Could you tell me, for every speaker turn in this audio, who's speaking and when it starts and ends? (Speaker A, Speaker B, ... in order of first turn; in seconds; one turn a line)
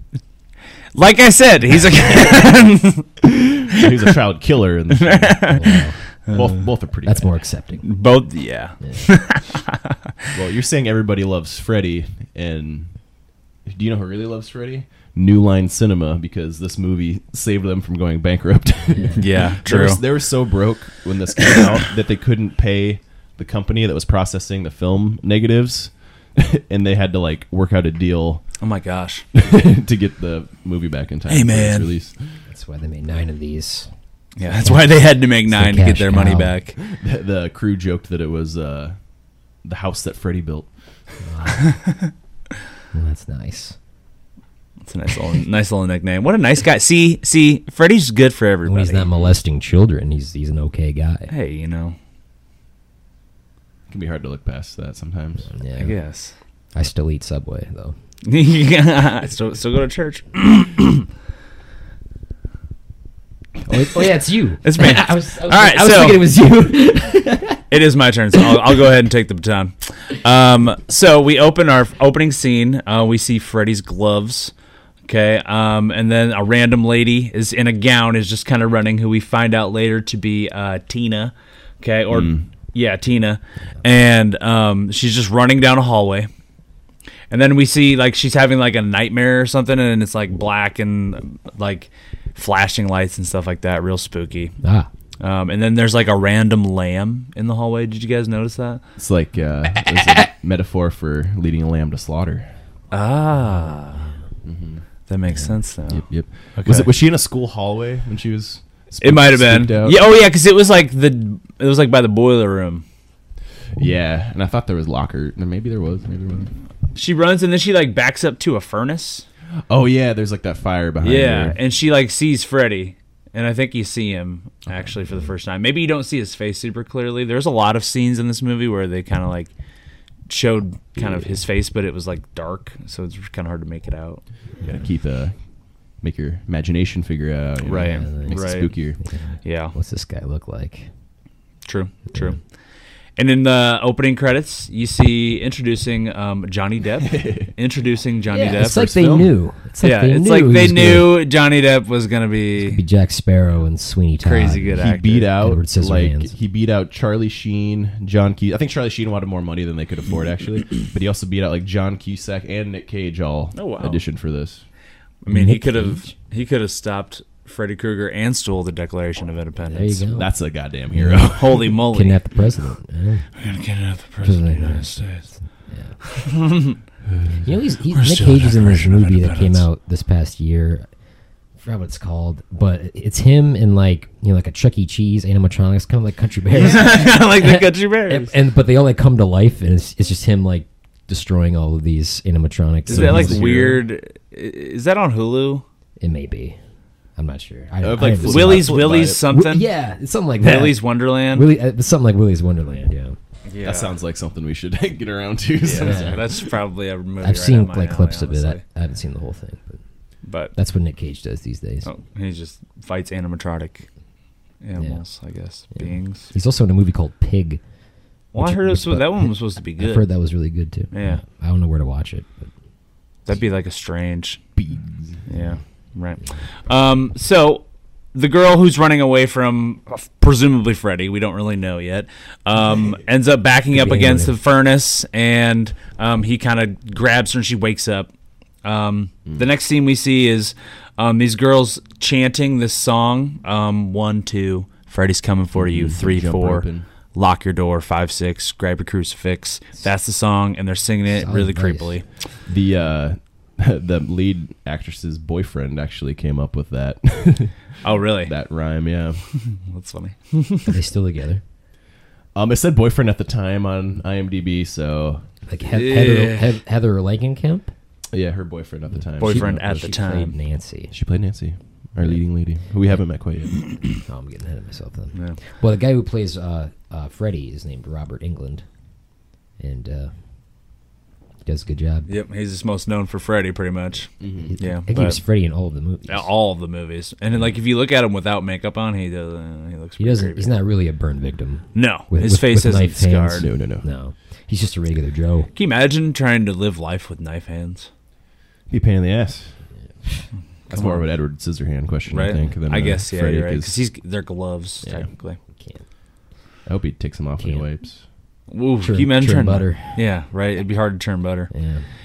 Speaker A: 0.9-3.8
Speaker B: 3.7-7.3
Speaker A: 5.0-6.6
Speaker C: 5.5-6.0
Speaker C: 7.0-7.9
Speaker A: 7.8-9.8
Speaker C: 8.8-9.2
Speaker B: 10.3-28.6
Speaker C: 18.9-19.2
Speaker A: 19.1-20.0
Speaker A: 28.6-29.2
Speaker B: 29.3-32.4
Speaker A: 31.3-31.9
Speaker C: 32.5-33.9
Speaker A: 34.4-36.8
Speaker C: 34.4-36.5
Speaker B: 36.8-39.0
Speaker B: 39.6-40.7
Speaker C: 41.2-41.8
Speaker A: 41.7-42.1
Speaker C: 42.9-43.8
Speaker A: 44.8-49.2
Speaker C: 48.6-51.3
Speaker A: 51.3-52.0
Speaker B: 53.9-55.5
Speaker C: 55.5-56.0
Speaker A: 55.8-56.3
Speaker C: 56.7-58.0
Speaker A: 58.2-61.1
Speaker C: 63.6-67.6
Speaker A: 64.6-66.3
Speaker A: 67.7-74.5
Speaker A: 75.0-86.3
Speaker B: 82.1-82.5
Speaker A: 87.3-94.5
Speaker C: 94.6-94.9
Speaker A: 95.2-98.8
Speaker B: 99.0-102.5
Speaker A: 102.9-104.1
Speaker C: 103.4-103.7
Speaker B: 104.4-104.8
Speaker A: 105.1-106.9
Speaker B: 105.9-110.0
Speaker A: 109.0-112.8
Speaker B: 113.8-116.5
Speaker A: 116.9-119.2
Speaker B: 119.7-121.6
Speaker A: 121.0-129.5
Speaker B: 124.7-125.1
Speaker A: 130.3-134.2
Speaker B: 134.6-139.0
Speaker A: 137.7-138.8
Speaker C: 137.7-140.9
Speaker A: 139.4-139.7
Speaker A: 141.6-142.4
Speaker A: 143.2-149.1
Speaker B: 147.0-147.5
Speaker C: 148.3-151.2
Speaker B: 148.9-149.3
Speaker A: 149.8-152.8
Speaker C: 152.6-156.3
Speaker A: 154.2-155.3
Speaker B: 154.7-164.6
Speaker A: 163.5-164.0
Speaker A: 165.2-170.1
Speaker C: 165.3-166.1
Speaker C: 169.6-170.3
Speaker B: 170.1-171.7
Speaker C: 170.9-173.3
Speaker A: 171.0-172.2
Speaker A: 173.4-175.3
Speaker C: 174.2-176.0
Speaker A: 176.0-176.8
Speaker B: 177.1-177.4
Speaker C: 177.4-180.9
Speaker A: 177.9-179.7
Speaker C: 181.6-193.8
Speaker A: 186.5-188.3
Speaker B: 192.9-193.8
Speaker A: 192.9-195.6
Speaker C: 196.0-196.6
Speaker C: 197.2-203.2
Speaker B: 197.8-199.2
Speaker A: 198.2-199.7
Speaker A: 200.4-201.5
Speaker A: 203.4-203.9
Speaker B: 203.6-206.5
Speaker A: 205.6-208.6
Speaker C: 205.8-206.2
Speaker C: 207.2-209.8
Speaker A: 210.2-210.5
Speaker C: 210.5-211.9
Speaker A: 211.8-213.9
Speaker A: 214.6-216.3
Speaker C: 214.7-215.0
Speaker C: 215.7-217.6
Speaker A: 218.3-220.0
Speaker C: 218.3-222.3
Speaker A: 220.9-221.2
Speaker A: 223.2-224.4
Speaker B: 224.6-225.2
Speaker A: 225.3-238.1
Speaker C: 233.7-234.4
Speaker A: 238.6-252.1
Speaker B: 245.6-246.8
Speaker C: 251.1-252.0
Speaker B: 252.4-259.4
Speaker A: 257.8-258.3
Speaker A: 259.4-260.7
Speaker C: 260.7-261.4
Speaker B: 262.3-265.2
Speaker C: 265.4-267.7
Speaker A: 265.7-266.5
Speaker B: 268.1-269.9
Speaker C: 269.2-270.9
Speaker A: 269.2-270.3
Speaker B: 270.9-273.7
Speaker C: 273.9-278.6
Speaker A: 275.1-275.4
Speaker C: 279.6-280.1
Speaker C: 281.4-282.1
Speaker A: 282.1-285.2
Speaker B: 284.2-284.6
Speaker C: 284.3-286.3
Speaker A: 286.1-290.6
Speaker C: 290.0-295.5
Speaker A: 291.7-293.5
Speaker B: 293.4-293.9
Speaker A: 295.5-297.9
Speaker B: 298.7-299.7
Speaker C: 300.1-301.0
Speaker A: 300.7-301.0
Speaker B: 300.7-303.8
Speaker A: 302.1-305.4
Speaker B: 304.8-305.1
Speaker C: 305.5-305.8
Speaker B: 306.6-308.0
Speaker C: 307.4-307.7
Speaker A: 308.5-311.5
Speaker C: 308.8-310.0
Speaker C: 311.5-311.9